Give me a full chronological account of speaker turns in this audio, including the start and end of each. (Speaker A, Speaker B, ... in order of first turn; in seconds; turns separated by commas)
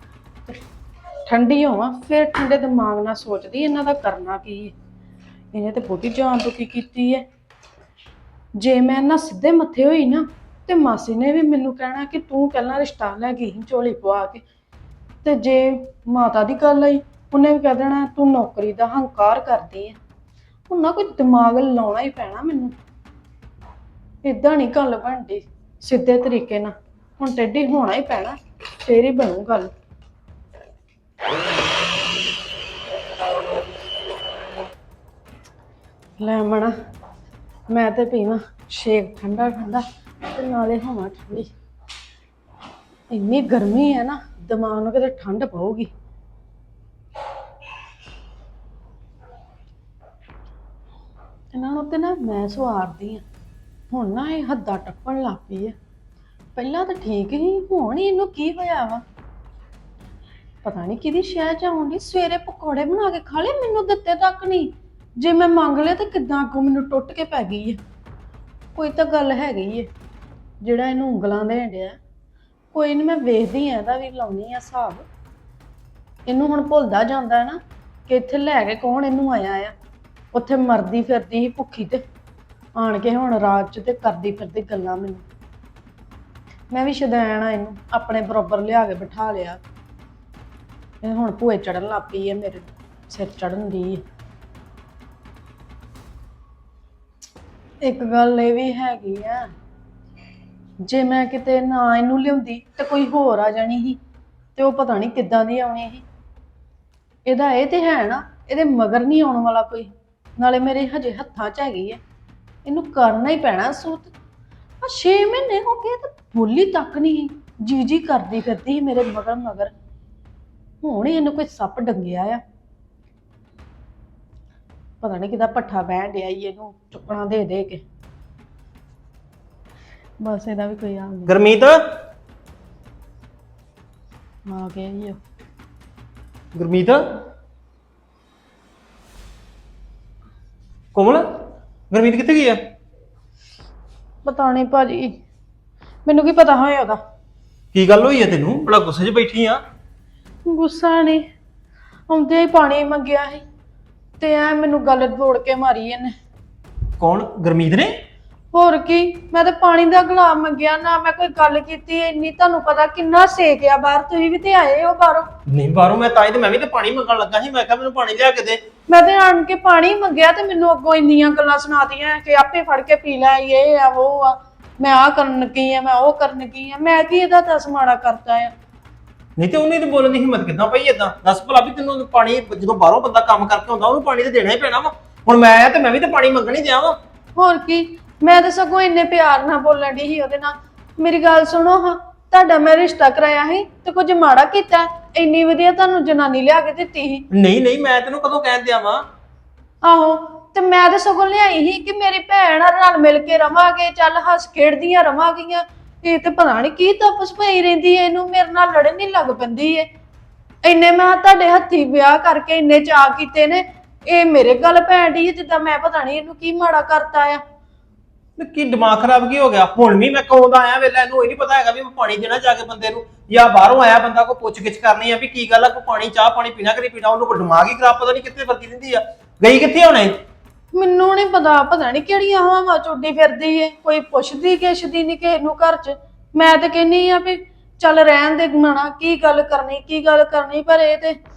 Speaker A: 1.3-4.7, Speaker A: 5.5-7.2, Speaker A: 8.6-14.4, Speaker A: 15.2-20.0, Speaker A: 20.7-22.7, Speaker A: 24.2-29.7, Speaker A: 36.2-36.7, Speaker A: 37.7-41.5, Speaker A: 43.1-45.9, Speaker A: 51.5-53.2, Speaker A: 53.9-55.8, Speaker A: 56.6-59.0, Speaker A: 60.6-67.8, Speaker A: 68.8-69.9, Speaker A: 70.6-72.0, Speaker A: 72.7-75.1, Speaker A: 76.3-79.7, Speaker A: 80.3-82.0, Speaker A: 82.8-85.2, Speaker A: 86.7-89.6, Speaker A: 91.0-94.0, Speaker A: 97.8-99.5, Speaker A: 100.8-104.0, Speaker A: 104.6-106.0, Speaker A: 107.3-112.0, Speaker A: 112.7-114.1, Speaker A: 114.8-119.7, Speaker A: 120.8-122.4, Speaker A: 125.0-127.8, Speaker A: 130.2-131.3, Speaker B: 131.3-131.8, Speaker A: 134.5-135.2, Speaker B: 136.5-137.0, Speaker B: 140.9-141.2, Speaker B: 141.9-142.6, Speaker A: 144.2-145.2, Speaker A: 146.1-147.0, Speaker B: 147.7-149.6, Speaker A: 150.5-151.2, Speaker A: 152.1-153.4, Speaker A: 154.2-156.1, Speaker B: 157.0-157.9, Speaker A: 158.5-165.3, Speaker B: 165.5-168.6, Speaker A: 168.9-178.5, Speaker B: 179.4-187.0, Speaker A: 187.4-197.2, Speaker B: 197.3-199.0, Speaker A: 199.8-209.9, Speaker A: 210.7-217.4, Speaker B: 218.4-230.2, Speaker A: 230.7-241.2